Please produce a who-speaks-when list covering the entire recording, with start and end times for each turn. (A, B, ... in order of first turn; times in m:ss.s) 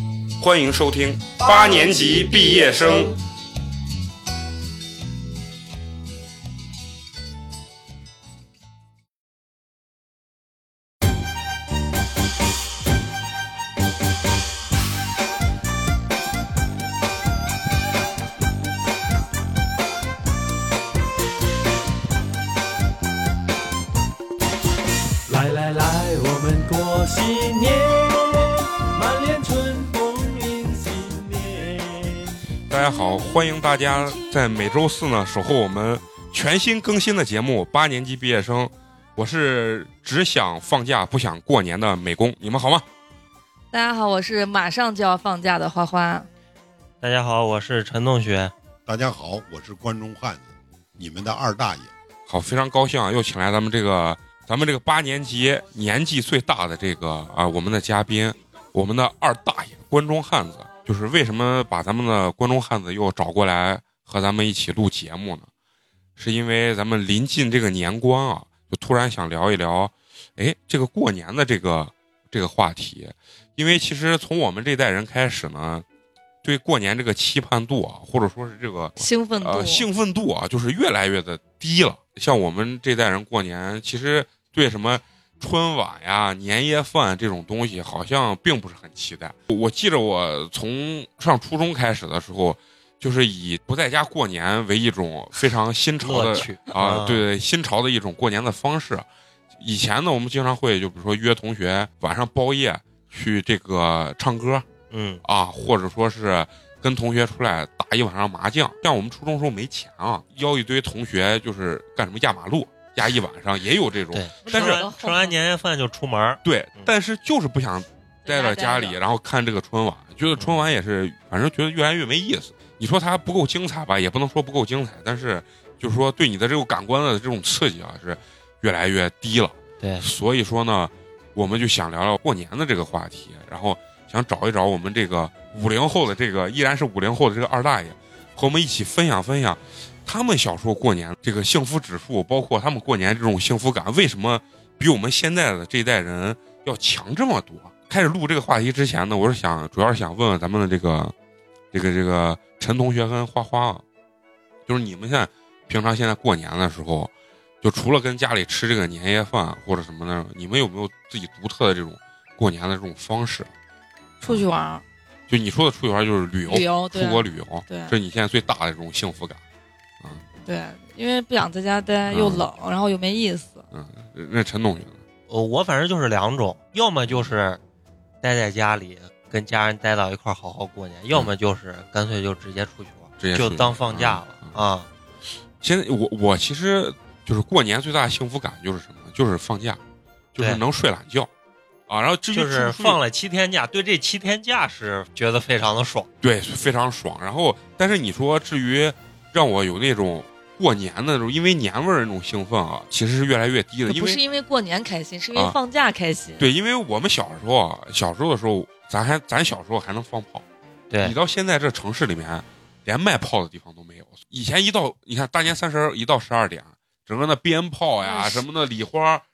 0:00.4-0:03.1 A
0:25.3-0:32.3 B
0:32.7-0:42.8 A
0:43.7-0:46.3 C
0:47.0-0:48.5 D
0:48.8-0:51.9 E
0:52.3-1:05.5 A
1:06.2-1:15.8 A
1:16.4-1:39.0 A
1:19.0-1:19.9 C
1:36.0-1:37.2 D
1:39.6-1:44.6 A
1:44.9-1:45.2 D
1:45.2-1:54.9 A
1:54.1-1:56.9 D
1:54.4-1:55.4 C
1:56.4-2:31.1 A
1:58.2-1:59.0 C
2:00.4-2:00.6 D
2:09.8-2:10.1 D
2:31.7-2:33.8 A
2:34.7-2:43.5 A
2:44.2-2:44.8 C
2:45.3-2:49.4 A
2:46.5-2:47.9 C
2:50.4-2:53.6 C
2:52.1-2:52.5 A
2:53.7-2:55.0 A
2:55.3-2:57.6 D
2:58.2-3:04.9 D
3:03.2-3:04.5 A
3:05.6-3:09.8 A
3:10.3-3:11.3 A
3:10.4-3:10.6 D
3:11.9-3:13.0 A
3:12.3-3:16.1 D
3:16.2-3:24.2 A
3:23.8-3:26.5 C
3:26.4-3:30.4 A
3:30.9-3:31.2 D
3:31.0-3:39.2 A
3:38.0-3:38.4 C